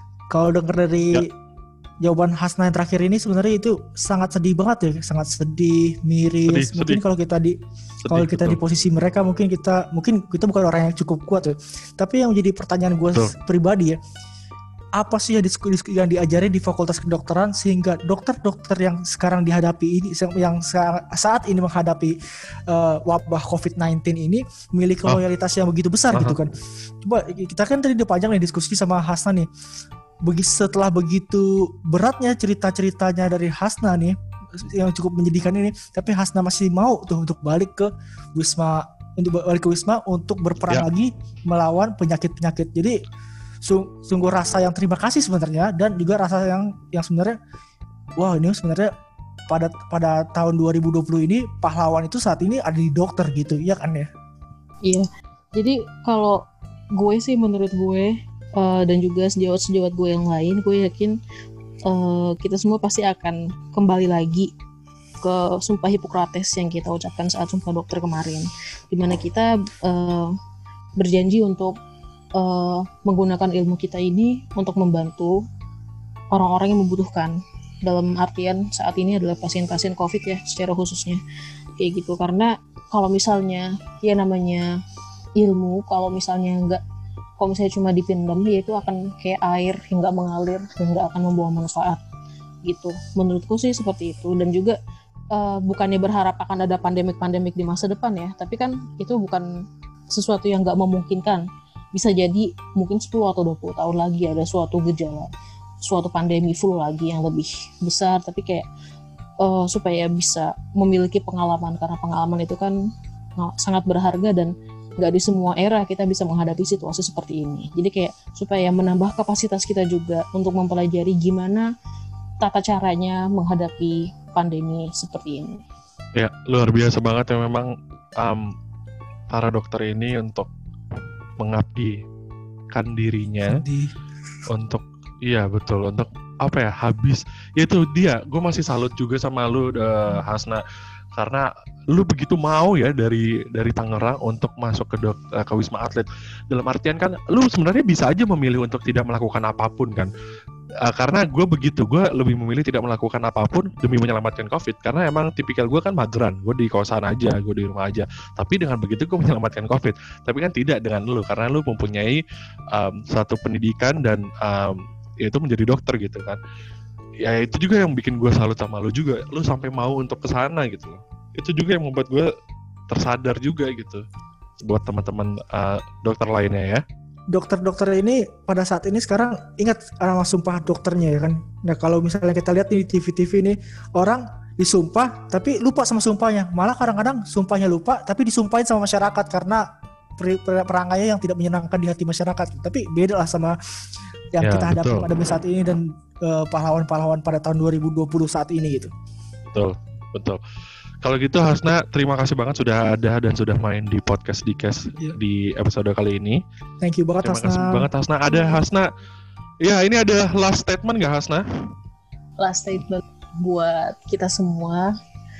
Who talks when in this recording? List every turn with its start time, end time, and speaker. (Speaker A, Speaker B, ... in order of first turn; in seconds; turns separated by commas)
Speaker A: 0.3-1.3, Speaker A: 2.0-7.5, Speaker B: 6.5-7.0, Speaker B: 8.0-8.6, Speaker A: 8.1-14.0, Speaker A: 15.0-22.1, Speaker A: 22.7-26.5, Speaker B: 26.1-26.4, Speaker A: 27.0-29.5, Speaker A: 30.2-43.0, Speaker A: 43.6-47.4, Speaker A: 48.2-48.9, Speaker A: 49.5-54.1, Speaker C: 54.8-56.4, Speaker C: 56.9-61.2, Speaker C: 61.9-64.5, Speaker C: 65.2-70.3, Speaker C: 71.0-71.8, Speaker C: 72.4-75.4, Speaker C: 76.3-81.2, Speaker C: 81.8-84.7, Speaker C: 85.4-86.8, Speaker C: 87.4-92.0, Speaker C: 92.6-94.8, Speaker C: 95.3-99.5, Speaker C: 100.1-105.3, Speaker C: 105.8-108.7, Speaker C: 109.4-112.7, Speaker C: 113.4-121.7, Speaker C: 122.4-125.5, Speaker B: 126.2-128.4, Speaker B: 129.3-130.5, Speaker B: 131.4-131.9, Speaker B: 132.7-133.6, Speaker A: 133.4-133.9, Speaker B: 134.5-140.6, Speaker B: 141.2-150.1, Speaker B: 150.9-162.2, Speaker B: 162.7-166.4, Speaker B: 167.2-172.3, Speaker B: 172.9-174.0, Speaker B: 174.6-176.8, Speaker A: 177.3-189.6, Speaker A: 190.2-193.6, Speaker A: 194.3-198.9, Speaker B: 194.4-195.1, Speaker B: 199.5-200.4, Speaker B: 201.0-206.4, Speaker A: 206.8-207.9, Speaker B: 207.2-208.9, Speaker B: 209.6-211.4, Speaker C: 212.4-214.9